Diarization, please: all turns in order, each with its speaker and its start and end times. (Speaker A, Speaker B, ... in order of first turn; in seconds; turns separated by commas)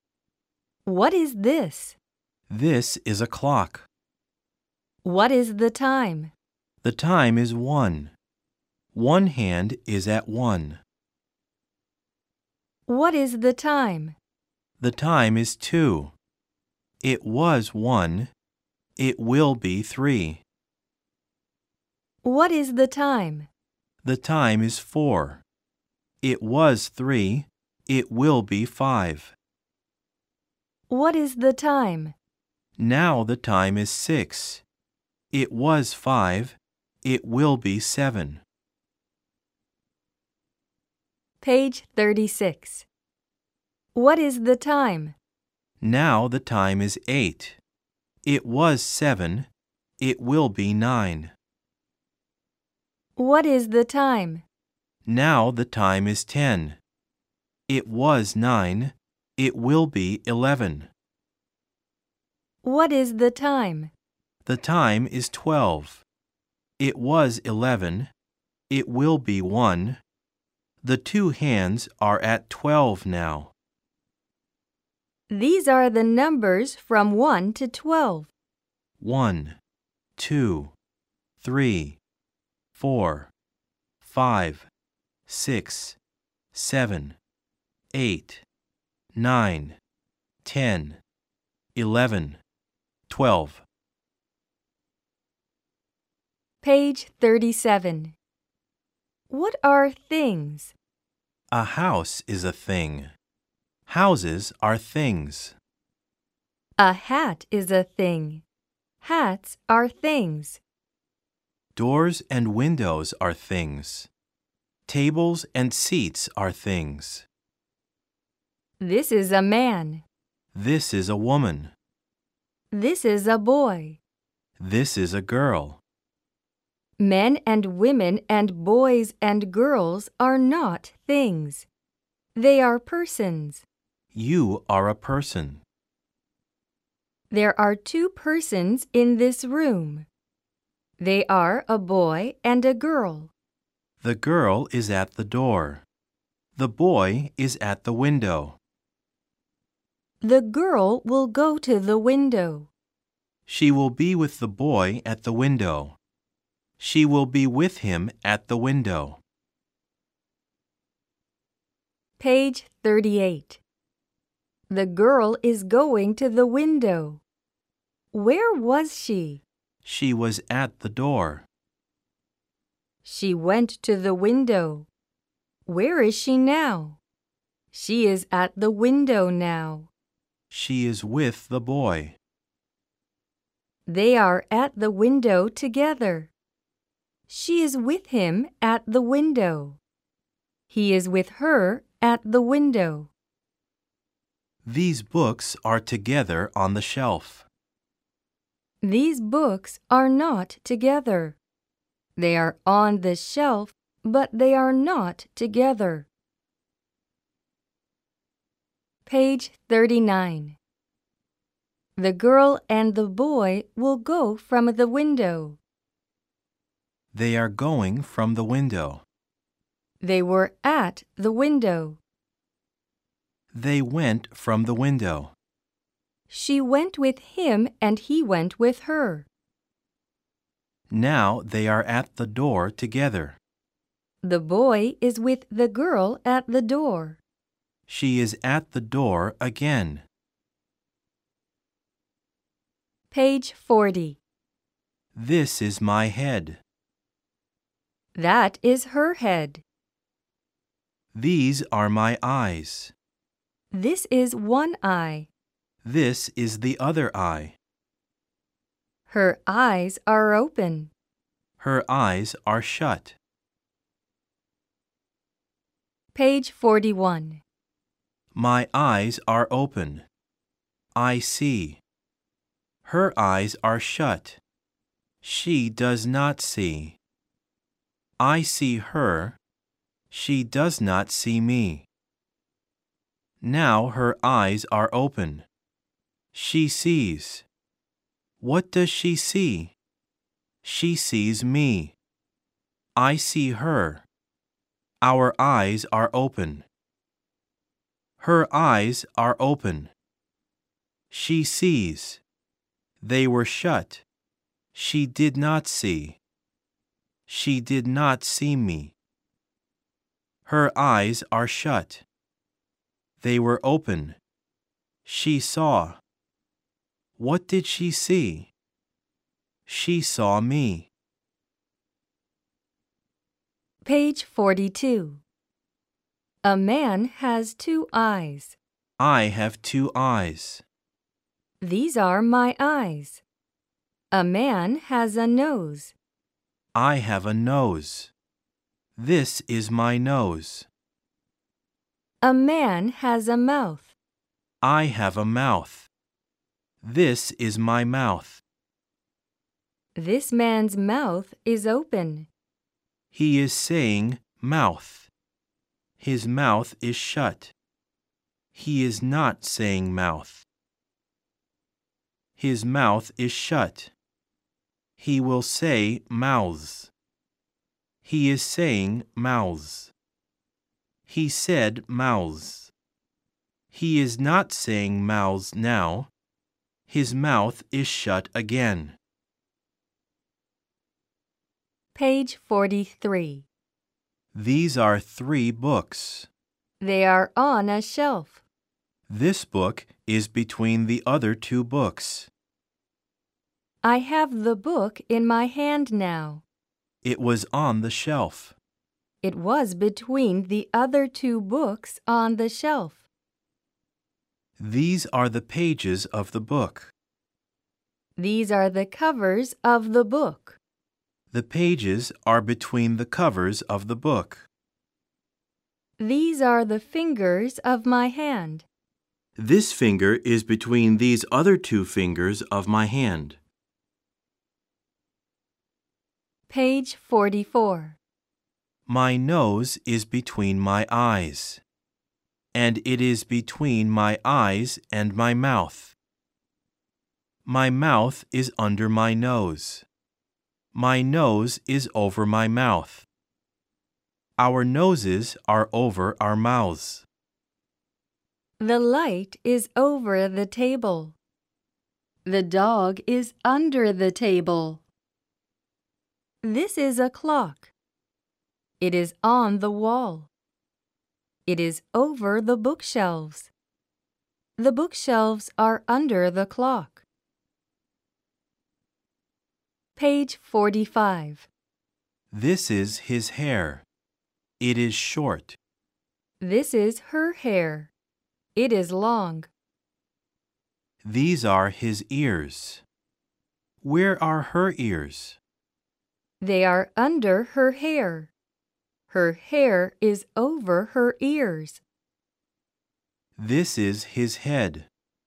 Speaker A: 0.8-2.0, Speaker B: 2.5-3.9, Speaker A: 5.0-6.3, Speaker B: 6.8-8.1, Speaker B: 8.9-10.8, Speaker A: 12.9-14.2, Speaker B: 14.8-16.1, Speaker B: 17.0-18.3, Speaker B: 19.0-20.4, Speaker A: 22.2-23.5, Speaker B: 24.0-25.4, Speaker B: 26.2-29.3, Speaker A: 30.9-32.1, Speaker B: 32.8-34.6, Speaker B: 35.3-38.4, Speaker A: 41.4-42.9, Speaker A: 43.9-45.1, Speaker B: 45.8-47.6, Speaker B: 48.2-51.3, Speaker A: 53.1-54.4, Speaker B: 55.0-56.8, Speaker B: 57.7-60.9, Speaker A: 62.6-63.9, Speaker B: 64.5-66.0, Speaker B: 66.8-68.1, Speaker B: 68.7-70.0, Speaker B: 70.8-73.5, Speaker A: 75.3-78.3, Speaker B: 79.0-79.6, Speaker B: 80.2-80.7, Speaker B: 81.4-82.0, Speaker B: 82.8-83.3, Speaker B: 84.0-84.7, Speaker B: 85.3-86.0, Speaker B: 86.5-87.2, Speaker B: 87.9-88.4, Speaker B: 89.1-89.8, Speaker B: 90.4-91.0, Speaker B: 91.7-92.4, Speaker B: 93.1-93.6, Speaker A: 96.6-98.2, Speaker A: 99.3-100.7, Speaker B: 101.5-103.1, Speaker B: 103.9-105.5, Speaker A: 106.8-108.4, Speaker A: 109.0-110.6, Speaker B: 111.8-114.1, Speaker B: 114.9-117.2, Speaker A: 118.8-120.0, Speaker B: 120.5-121.7, Speaker A: 122.7-124.0, Speaker B: 124.6-125.8, Speaker A: 127.0-131.7, Speaker A: 132.3-133.6, Speaker B: 134.1-135.6, Speaker A: 137.3-140.1, Speaker A: 141.0-143.3, Speaker B: 144.0-145.8, Speaker B: 146.6-148.6, Speaker A: 150.2-152.7, Speaker B: 153.5-156.0, Speaker B: 156.8-159.2, Speaker A: 162.2-163.6, Speaker A: 164.7-167.2, Speaker A: 168.1-169.4, Speaker B: 169.8-171.4, Speaker A: 173.0-174.9, Speaker A: 175.7-177.0, Speaker A: 177.7-179.9, Speaker B: 180.5-182.2, Speaker A: 183.9-186.3, Speaker A: 187.3-189.8, Speaker A: 190.7-193.1, Speaker B: 194.6-197.5, Speaker A: 198.8-201.4, Speaker A: 202.2-206.1, Speaker A: 209.1-210.6, Speaker A: 212.0-215.6, Speaker B: 217.1-219.0, Speaker A: 220.0-222.0, Speaker B: 223.5-225.3, Speaker A: 226.3-229.3, Speaker B: 230.9-233.4, Speaker A: 234.2-237.2, Speaker B: 237.9-240.0, Speaker A: 243.1-244.2, Speaker B: 245.1-246.6, Speaker A: 248.1-249.6, Speaker B: 251.1-252.9, Speaker A: 253.7-255.3, Speaker B: 255.8-257.6, Speaker A: 259.1-260.9, Speaker B: 261.6-263.1, Speaker A: 266.1-267.4, Speaker B: 268.3-270.1, Speaker B: 270.9-271.8, Speaker B: 272.8-274.4, Speaker B: 275.2-277.0, Speaker B: 278.2-279.4, Speaker B: 280.1-281.9, Speaker B: 283.4-285.4, Speaker B: 286.3-287.4, Speaker B: 288.4-289.7, Speaker B: 290.6-291.9, Speaker B: 292.9-294.0, Speaker B: 295.0-296.7, Speaker B: 298.2-299.9, Speaker B: 301.1-302.2, Speaker B: 303.0-304.0, Speaker B: 304.7-306.2, Speaker B: 307.3-308.9, Speaker B: 310.4-312.0, Speaker B: 313.2-314.2, Speaker B: 315.0-316.0, Speaker B: 317.2-318.5, Speaker B: 319.7-320.9, Speaker A: 323.8-325.2, Speaker A: 326.4-328.6, Speaker B: 329.0-330.6, Speaker A: 331.6-333.2, Speaker A: 334.1-335.9, Speaker B: 336.7-338.1, Speaker B: 338.9-340.7, Speaker A: 342.2-343.9, Speaker B: 344.6-345.9, Speaker B: 346.8-348.4, Speaker A: 349.9-352.3, Speaker B: 353.1-355.1, Speaker B: 356.0-357.5, Speaker B: 358.5-360.4, Speaker B: 362.4-363.9, Speaker B: 365.0-366.9, Speaker B: 368.0-369.9, Speaker B: 371.1-372.7, Speaker B: 373.7-376.1, Speaker B: 376.9-379.0, Speaker A: 381.9-383.5, Speaker B: 384.3-386.3, Speaker A: 386.8-388.4, Speaker B: 389.1-392.3, Speaker A: 393.8-396.4, Speaker B: 397.0-398.5, Speaker A: 399.2-403.1, Speaker B: 404.6-406.9, Speaker A: 408.2-410.6, Speaker B: 411.3-414.5, Speaker A: 416.0-418.6, Speaker B: 419.4-423.4, Speaker A: 426.5-428.0, Speaker B: 428.9-431.6, Speaker B: 432.5-435.9, Speaker B: 437.4-439.8, Speaker B: 440.7-443.1, Speaker B: 444.4-447.1, Speaker A: 448.6-451.1, Speaker A: 452.2-454.8, Speaker A: 456.4-457.7, Speaker A: 458.8-460.3, Speaker A: 461.4-463.5, Speaker A: 464.6-467.0, Speaker A: 469.9-471.5, Speaker B: 472.3-473.8, Speaker B: 474.6-475.6, Speaker A: 476.4-477.9, Speaker A: 478.5-479.5, Speaker B: 481.0-482.8, Speaker B: 483.8-485.4, Speaker A: 486.4-488.3, Speaker A: 489.1-491.8, Speaker B: 493.4-494.9